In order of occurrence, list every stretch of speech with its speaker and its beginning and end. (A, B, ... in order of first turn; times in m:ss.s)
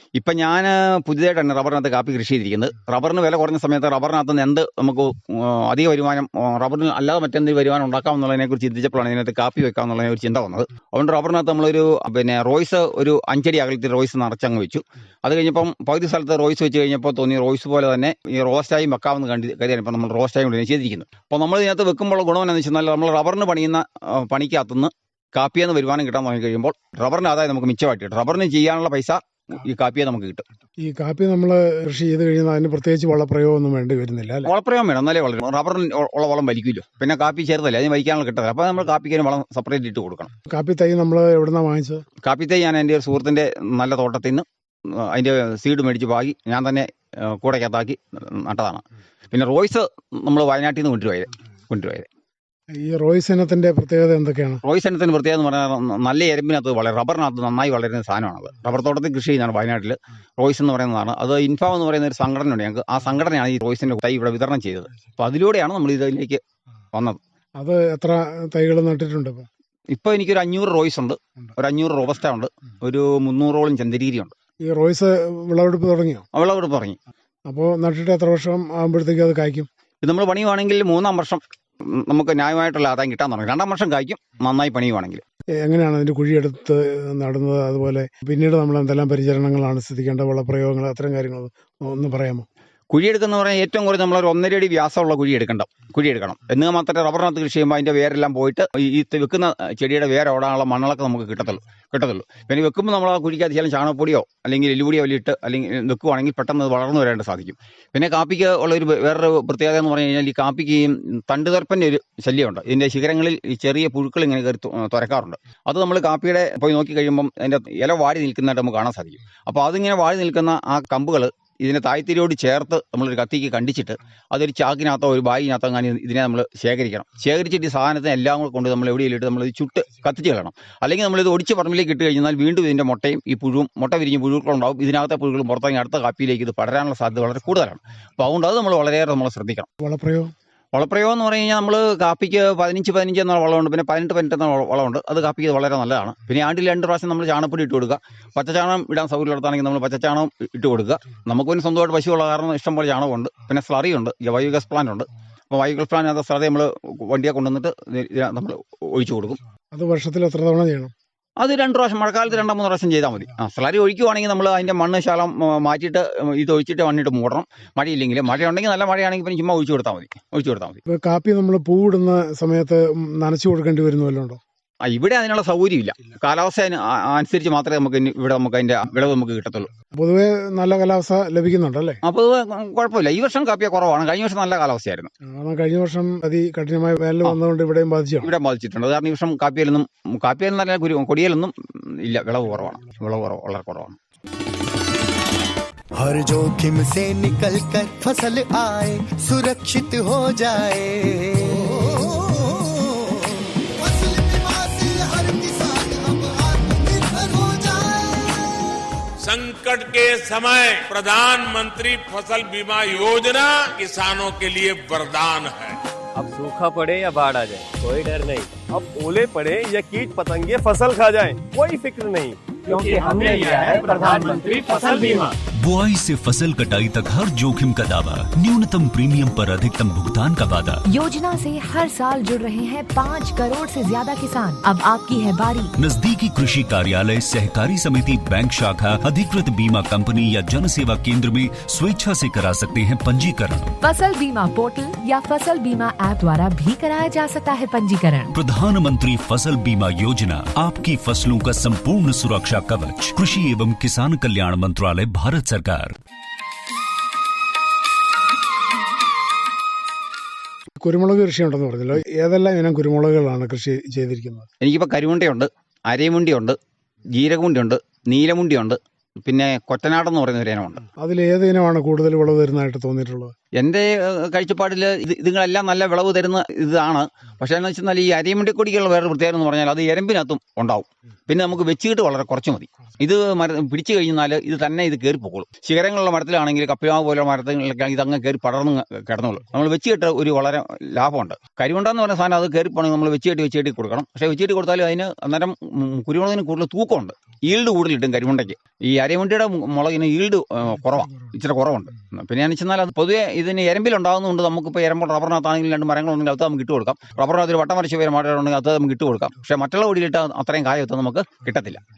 0:00.2-0:30.4 A
0:30.8-0:34.5 B
0:34.4-0:40.3 A
0:40.5-0:42.0 B
0:42.2-0:52.1 A
0:52.7-0:54.6 B
0:54.6-1:06.4 A
1:06.9-1:07.2 A
1:07.6-1:09.5 B
1:09.9-1:14.3 A
1:14.6-1:16.2 B
1:16.3-1:17.0 A
1:17.5-1:19.7 B
1:20.0-1:25.2 A
1:25.6-1:32.5 B
1:32.9-2:19.7 A
2:19.8-2:20.3 B
2:20.7-2:39.4 A
2:39.7-2:40.9 B
2:41.4-2:50.8 A
2:50.9-2:54.4 B
2:54.8-2:59.7 A
2:59.9-3:02.0 B
3:02.0-3:05.1 A
3:05.2-3:08.3 B
3:08.2-3:14.0 A
3:16.0-3:28.5 C
3:29.2-3:35.8 D
3:36.2-3:45.3 E
3:45.6-3:50.8 F
3:50.9-3:55.7 G
3:55.8-4:03.7 F
4:03.8-4:08.3 G
4:08.3-4:15.9 F
4:20.8-4:24.5 B
4:24.6-4:26.6 A
4:27.1-4:30.8 A
4:31.0-4:33.3 B
4:33.5-5:11.8 A